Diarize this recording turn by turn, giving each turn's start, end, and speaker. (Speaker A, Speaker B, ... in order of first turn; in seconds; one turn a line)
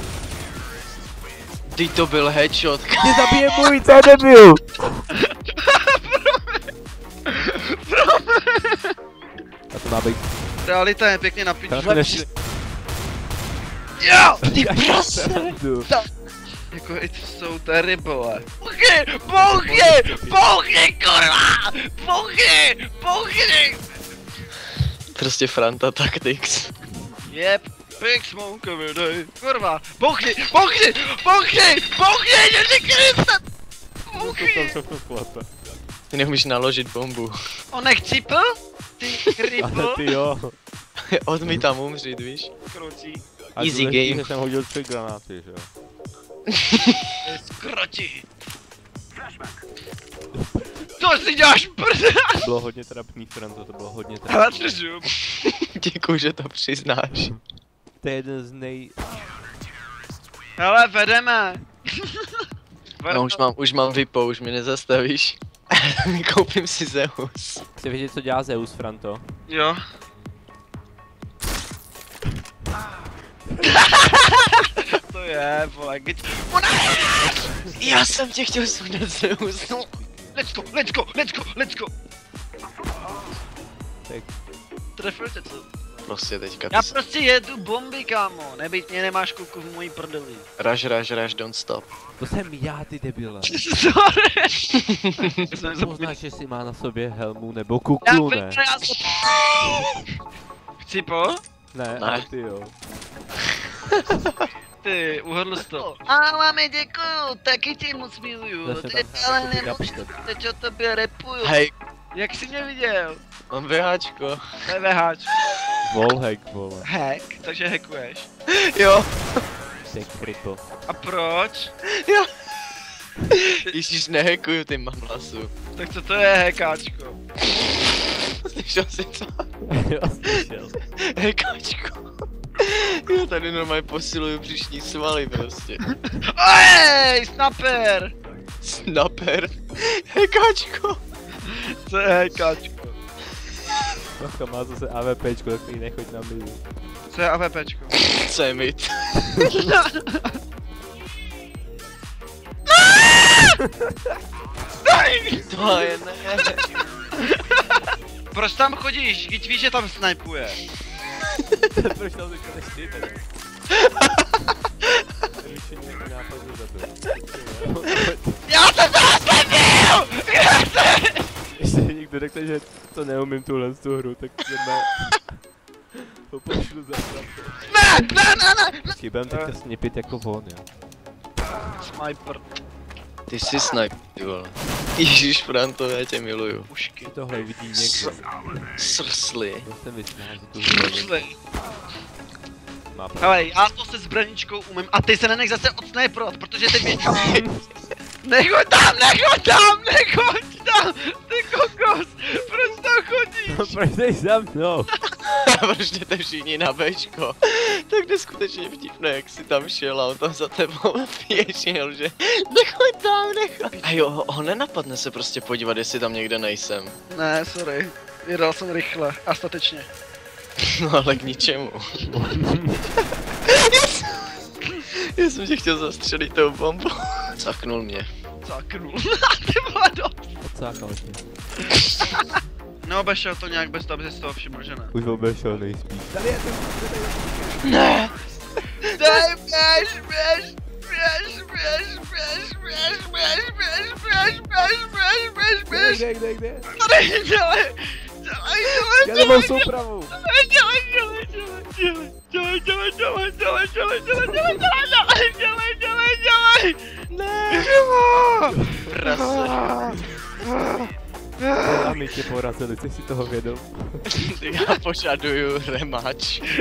Speaker A: 1.7-3.4
Speaker B: 3.0-5.0
Speaker C: 5.2-6.6
Speaker C: 7.3-8.9
Speaker B: 9.7-10.3
Speaker C: 10.6-12.2
Speaker B: 11.7-12.3
Speaker C: 14.0-14.4
Speaker B: 14.4-15.9
Speaker A: 14.5-15.6
Speaker C: 16.7-23.8
Speaker B: 19.3-20.4
Speaker A: 25.1-26.7
Speaker C: 27.3-33.4
Speaker C: 34.1-34.8
Speaker B: 34.1-35.5
Speaker A: 36.1-37.4
Speaker C: 37.7-40.0
Speaker B: 39.6-40.6
Speaker A: 41.1-42.5
Speaker C: 42.7-43.2
Speaker B: 43.6-45.7
Speaker A: 43.6-44.3
Speaker A: 46.5-47.1
Speaker C: 47.2-48.2
Speaker C: 51.0-52.5
Speaker B: 52.4-54.8
Speaker C: 54.2-55.1
Speaker A: 55.4-57.3
Speaker B: 58.0-59.0
Speaker C: 60.6-62.4
Speaker C: 63.0-63.4
Speaker A: 63.1-67.6
Speaker B: 67.8-69.2
Speaker C: 69.5-69.8
Speaker C: 73.6-77.7
Speaker B: 77.3-77.8
Speaker A: 77.8-79.9
Speaker B: 79.9-80.4
Speaker C: 80.3-81.9
Speaker C: 85.0-85.7
Speaker A: 86.1-87.0
Speaker C: 86.7-90.5
Speaker A: 90.6-91.9
Speaker B: 92.2-93.6
Speaker C: 93.5-94.6
Speaker A: 94.7-95.3
Speaker C: 95.2-96.2
Speaker B: 95.5-98.6
Speaker C: 98.0-100.0
Speaker C: 100.8-101.4
Speaker B: 101.7-102.7
Speaker A: 102.0-102.3
Speaker A: 103.8-104.3
Speaker C: 104.8-111.6
Speaker B: 108.6-110.1
Speaker A: 111.4-111.7
Speaker C: 112.1-113.2
Speaker A: 113.5-114.4
Speaker C: 114.7-115.3
Speaker B: 115.8-116.9
Speaker C: 116.8-118.3
Speaker A: 118.5-119.4
Speaker B: 119.9-120.6
Speaker C: 120.9-121.7
Speaker A: 121.9-122.3
Speaker A: 123.3-125.5
Speaker C: 125.8-127.2
Speaker A: 127.4-129.5
Speaker B: 129.7-130.8
Speaker A: 131.0-135.8
Speaker C: 136.2-138.1
Speaker A: 138.6-141.0
Speaker C: 141.4-143.0
Speaker B: 144.2-146.6
Speaker C: 147.1-148.0
Speaker A: 148.0-149.4
Speaker C: 149.5-150.3
Speaker C: 152.8-153.4
Speaker C: 154.8-155.8
Speaker A: 155.5-156.6
Speaker C: 158.3-160.6
Speaker B: 161.7-163.2
Speaker B: 165.4-168.4
Speaker C: 168.5-171.3
Speaker B: 171.6-175.4
Speaker B: 176.3-177.6
Speaker C: 177.7-179.6
Speaker B: 178.9-180.7
Speaker C: 181.7-182.4
Speaker A: 183.3-186.7
Speaker C: 186.7-187.1
Speaker B: 187.0-188.3
Speaker A: 187.7-188.2
Speaker A: 188.8-189.7
Speaker B: 189.7-191.2
Speaker C: 190.7-191.3
Speaker B: 192.9-193.7
Speaker C: 193.2-197.4
Speaker A: 197.0-197.4
Speaker B: 197.1-197.6
Speaker C: 198.2-203.8
Speaker B: 203.5-204.9
Speaker A: 205.3-216.9
Speaker C: 217.1-219.9
Speaker A: 220.6-222.1
Speaker B: 222.1-222.8
Speaker A: 223.0-224.4
Speaker A: 224.9-228.1
Speaker C: 228.4-230.3
Speaker B: 230.4-231.2
Speaker C: 231.8-234.9
Speaker B: 234.9-237.7
Speaker A: 237.6-238.2
Speaker A: 238.8-239.3
Speaker C: 238.9-246.1
Speaker B: 245.7-246.7
Speaker C: 246.7-256.8
Speaker B: 249.0-250.2
Speaker A: 257.1-257.9
Speaker C: 257.5-259.9
Speaker B: 258.5-259.0
Speaker A: 259.0-259.7
Speaker C: 260.5-260.8
Speaker C: 261.4-261.9
Speaker B: 261.6-264.1
Speaker A: 264.1-266.5